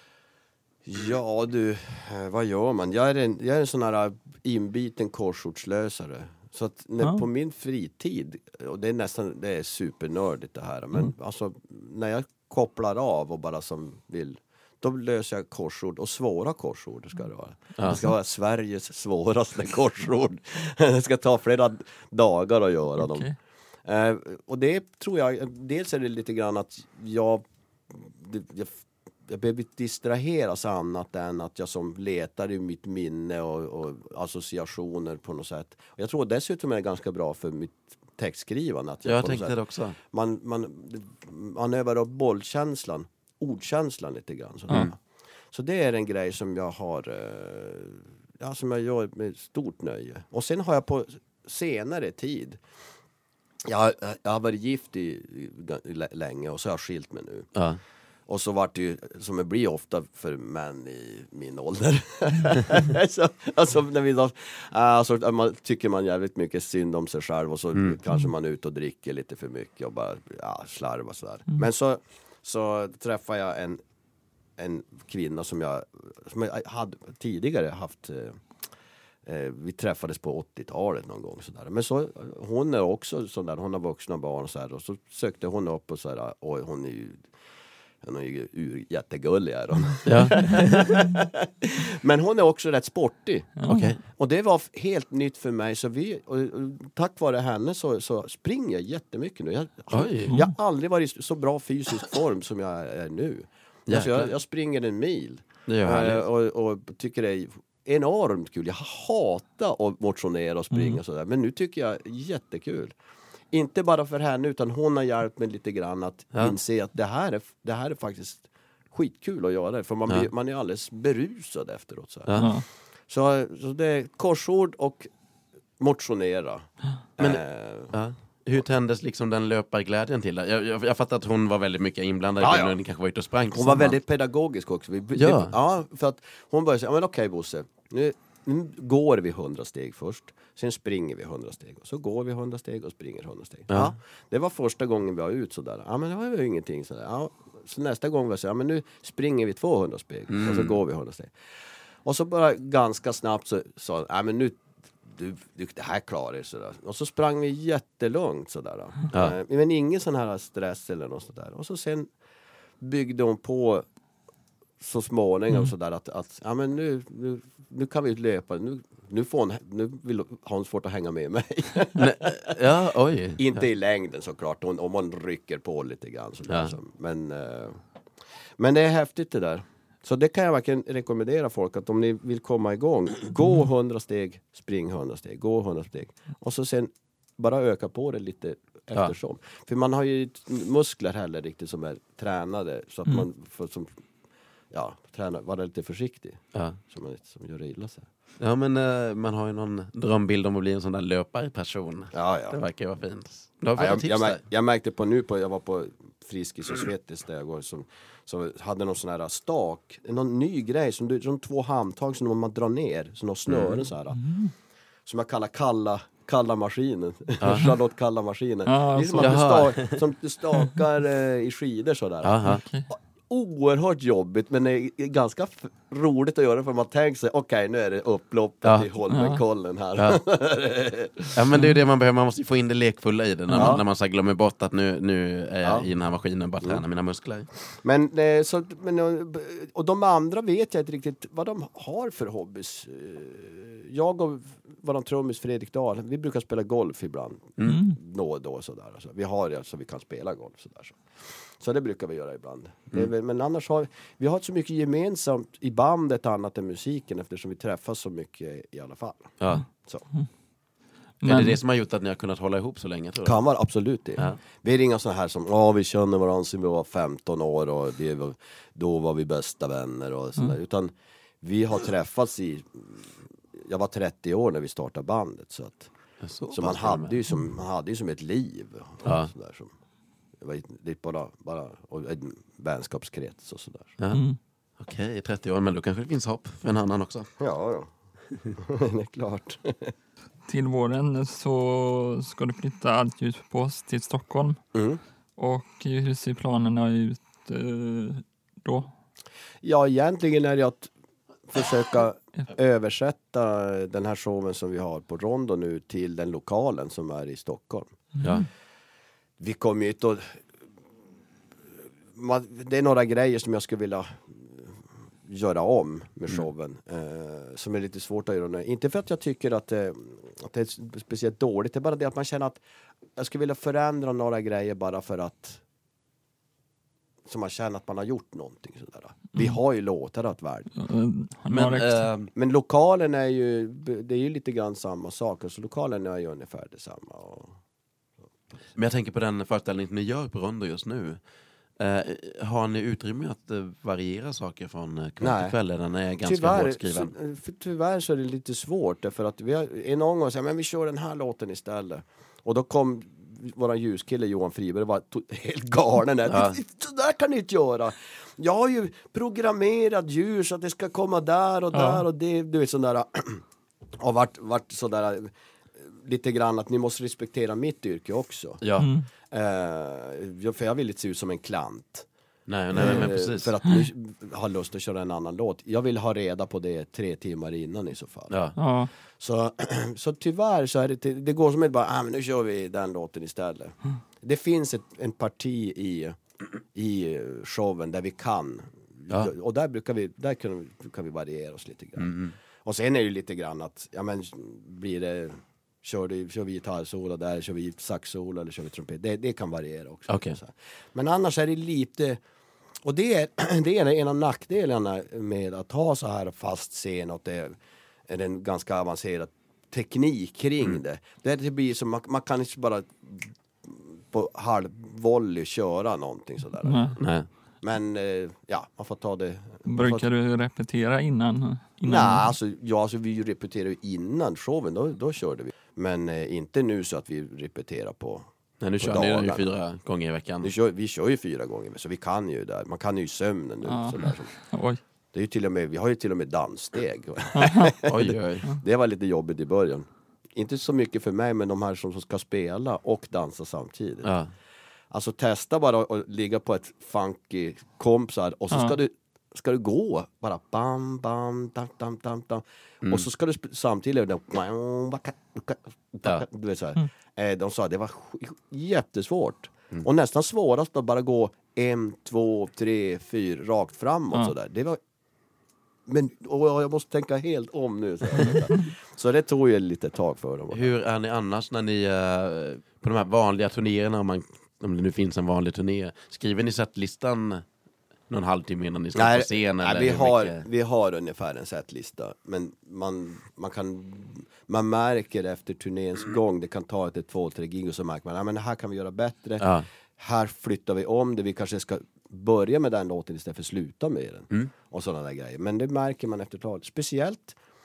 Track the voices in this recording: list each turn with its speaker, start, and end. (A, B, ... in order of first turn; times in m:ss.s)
0:00.9-0:23.3 A
0:17.8-0:18.0 B
0:23.0-0:23.3 C
0:23.8-0:39.6 A
0:39.0-0:40.0 B
0:40.1-0:45.0 A
0:45.5-0:52.6 A
0:53.6-0:57.5 A
0:57.6-0:57.8 B
0:58.3-1:13.8 A
1:14.6-1:18.4 A
1:19.2-1:27.3 A
1:28.0-1:33.6 A
1:30.0-1:31.0 B
1:33.6-1:33.9 C
1:33.7-1:34.0 B
1:34.1-1:53.0 A
1:39.9-1:40.4 B
1:43.9-1:44.3 B
1:45.7-1:46.2 B
1:50.7-1:51.0 C
1:53.5-2:02.5 A
2:02.3-2:02.5 B
2:02.4-2:02.6 C
2:03.1-2:05.1 A
2:05.8-2:08.0 A
2:07.2-2:14.0 B
2:12.4-2:12.8 A
2:13.5-2:31.3 A
2:15.2-2:15.5 B
2:30.3-2:30.8 B
2:32.0-2:42.1 A
2:42.8-2:43.9 A
2:44.8-2:52.6 A
2:52.0-2:53.6 B
2:53.4-2:57.8 A
2:56.5-2:56.8 B
2:58.6-3:13.9 A
3:14.7-3:18.1 A
3:18.4-3:24.4 B
3:22.1-3:22.6 A
3:23.8-3:34.2 A
3:33.5-3:33.8 B
3:34.2-3:34.5 C
3:35.1-3:51.4 A
3:37.4-3:37.7 B
3:38.7-3:39.4 C
3:39.2-3:40.0 B
3:42.2-3:42.6 B
3:42.5-3:42.9 C
3:48.6-3:48.9 B
3:49.1-3:49.4 C
3:51.3-3:57.5 B
3:53.5-3:53.8 C
3:53.6-3:53.8 A
3:57.8-4:11.0 A
4:07.6-4:07.9 B
4:07.7-4:08.0 C
4:11.6-4:20.1 A
4:19.4-4:19.7 B
4:21.2-4:21.6 C
4:21.2-4:23.4 B
4:23.2-4:35.9 A
4:36.2-4:37.2 B
4:36.5-4:39.7 A
4:39.0-4:39.3 B
4:40.4-4:43.9 A
4:44.0-4:44.3 B
4:44.1-4:44.4 C
4:44.8-4:47.3 B
4:47.4-4:47.9 A
4:48.6-4:49.9 A
4:50.5-4:54.6 C
4:54.7-4:55.0 A
4:55.4-4:58.9 C
4:59.6-5:00.9 A
5:01.5-5:07.9 A
5:08.2-5:08.5 B
5:09.4-5:10.4 A
5:12.1-5:22.6 A
5:23.2-5:25.6 A
5:27.3-5:30.7 A
5:30.8-5:32.1 C
5:31.5-5:32.3 B
5:32.4-5:37.6 A
5:38.8-5:41.2 B
5:41.8-5:47.1 B
5:45.2-5:45.6 A
5:46.2-6:03.4 A
5:56.3-5:56.6 B
6:01.7-6:02.0 C
6:04.0-6:08.6 A
6:08.6-6:08.9 B
6:08.8-6:09.1 C
6:09.3-6:12.1 A
6:12.5-6:13.5 B
6:12.7-6:18.4 A
6:18.3-6:18.6 B
6:18.6-6:18.9 C
6:19.2-6:26.2 A
6:26.7-6:42.2 A
6:32.0-6:32.4 B
6:40.1-6:40.4 B
6:42.8-6:47.6 A
6:48.1-6:57.0 A
6:56.6-6:57.0 C
6:57.0-6:57.3 B
6:57.6-7:00.1 A
6:59.7-7:02.3 C
7:01.8-7:08.3 A
7:08.6-7:10.5 B
7:08.8-7:09.5 A
7:10.4-7:14.4 A
7:13.7-7:14.8 C
7:15.1-7:24.1 A
7:17.4-7:17.8 C
7:17.8-7:18.5 B
7:24.0-7:24.3 B
7:24.9-7:44.8 A
7:28.5-7:28.8 C
7:45.9-7:50.7 A
7:50.5-7:57.4 B
7:58.1-8:00.4 B
7:59.0-8:17.4 A
8:09.4-8:09.7 B